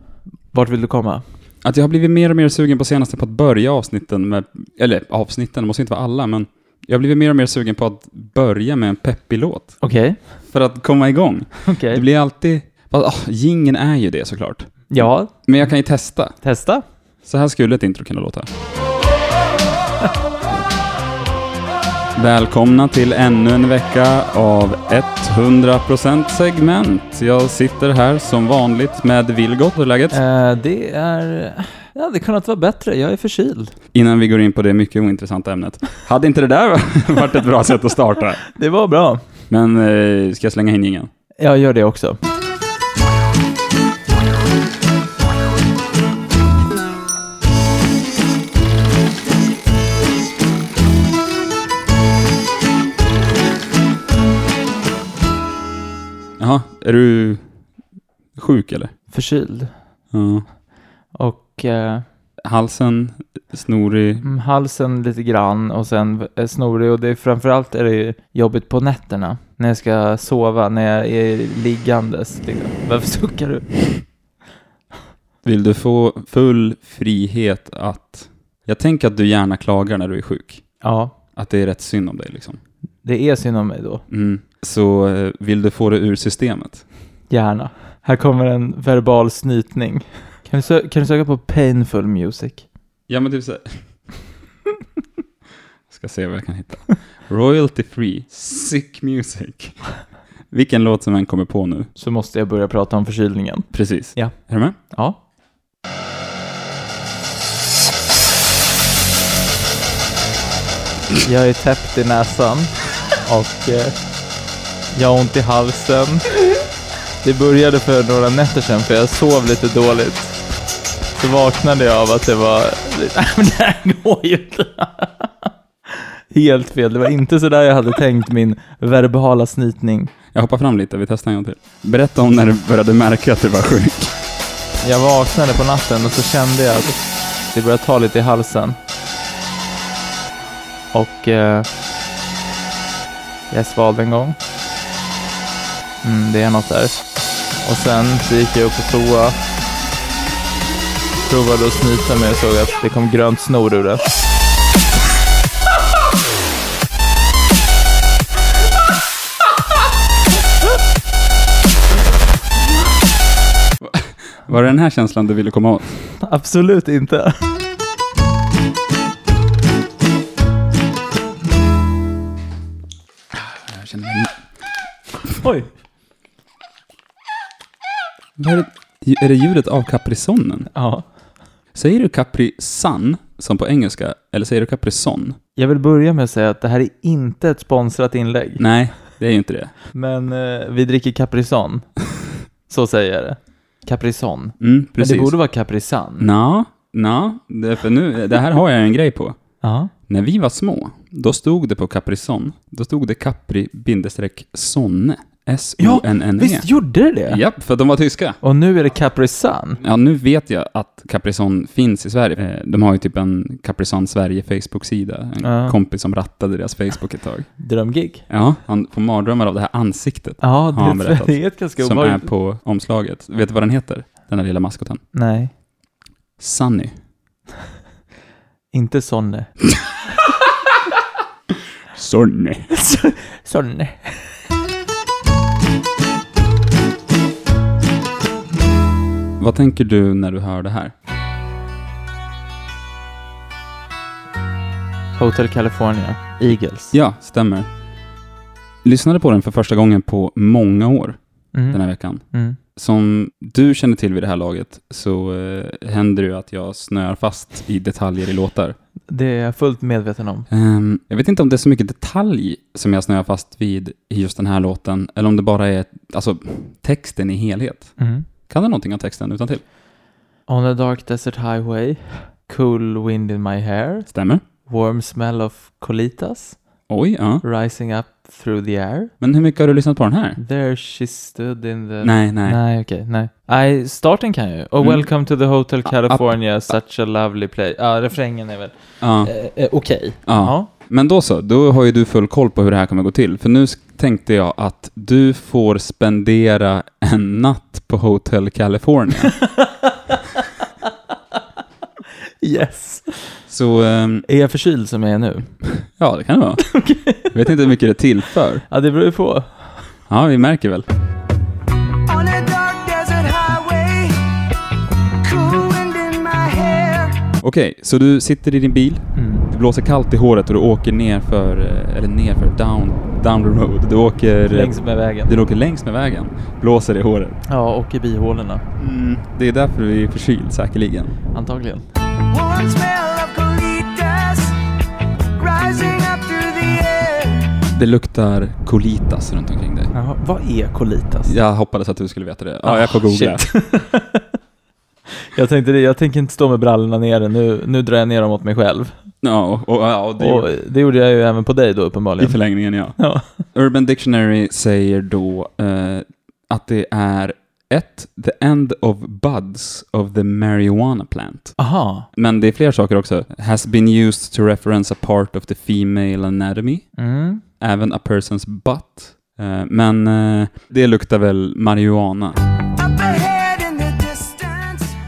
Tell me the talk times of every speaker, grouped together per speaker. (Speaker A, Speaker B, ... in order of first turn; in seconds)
Speaker A: 0.5-1.2, 9.8-10.2, 11.7-12.0, 14.9-15.3, 16.4-16.8, 30.1-33.8, 38.6-39.2, 41.4-42.2, 59.1-59.7, 61.1-62.0, 64.2-74.0, 80.8-81.2, 83.0-84.0, 87.3-92.7, 102.0-104.3, 104.9-105.2, 111.2-114.0, 114.9-116.2, 117.2-120.4, 121.2-125.5, 126.3-130.1, 134.8-138.8, 140.9-141.7, 143.5-144.4, 146.0-147.0, 147.6-149.4, 151.3-154.1, 166.2-167.4, 175.4-175.7, 180.7-181.1, 185.6-188.6, 189.9-191.9, 192.7-196.3, 199.6-199.9, 205.8-207.4, 208.4-209.8, 215.4-215.8, 217.6-218.3, 220.4-222.3, 225.1-225.5, 228.7-229.5, 232.7-234.3, 245.2-246.9, 251.5-252.6, 259.1-260.5, 268.0-268.3, 270.5-274.1, 274.7-276.7, 277.4-279.1, 280.4-290.7, 299.6-300.2, 302.4-303.4, 304.3-305.5, 306.7-307.3, 308.7-309.8, 319.2-319.4, 324.5-325.3, 327.5-328.6, 331.3-331.9, 339.9-341.3, 342.6-344.2, 345.3-348.9, 350.2-352.4, 353.0-353.3, 361.6-362.1, 367.0-367.4
Speaker B: 1.6-9.9, 10.4-16.4, 17.2-18.5, 22.1-30.2, 33.9-38.5, 39.5-41.1, 56.4-57.4, 58.4-58.9, 60.1-60.5, 62.4-64.3, 75.4-80.8, 81.3-82.6, 84.1-86.8, 93.1-93.8, 95.9-99.9, 100.5-101.9, 103.7-104.8, 130.3-134.1, 163.8-166.0, 173.3-174.3, 178.4-180.7, 181.7-185.4, 188.6-189.7, 194.6-195.4, 196.2-199.4, 200.1-206.7, 207.3-208.4, 209.8-217.5, 218.3-225.0, 226.4-226.9, 231.9-232.7, 239.4-240.9, 246.9-247.7, 248.8-251.2, 251.7-258.8, 260.5-269.6, 274.1-274.4, 276.9-277.4, 279.2-280.4, 282.0-282.6, 284.8-285.1, 285.9-286.4, 289.0-289.3, 290.2-299.4, 303.5-304.3, 305.8-308.6, 310.1-310.9, 317.4-327.4, 328.8-331.2, 337.7-339.9, 341.3-343.5, 349.2-350.5, 352.2-361.6, 362.1-366.9, 367.6-372.4
Speaker C: 312.1-314.2, 315.2-317.2, 332.3-334.6, 335.4-337.5, 372.8-375.0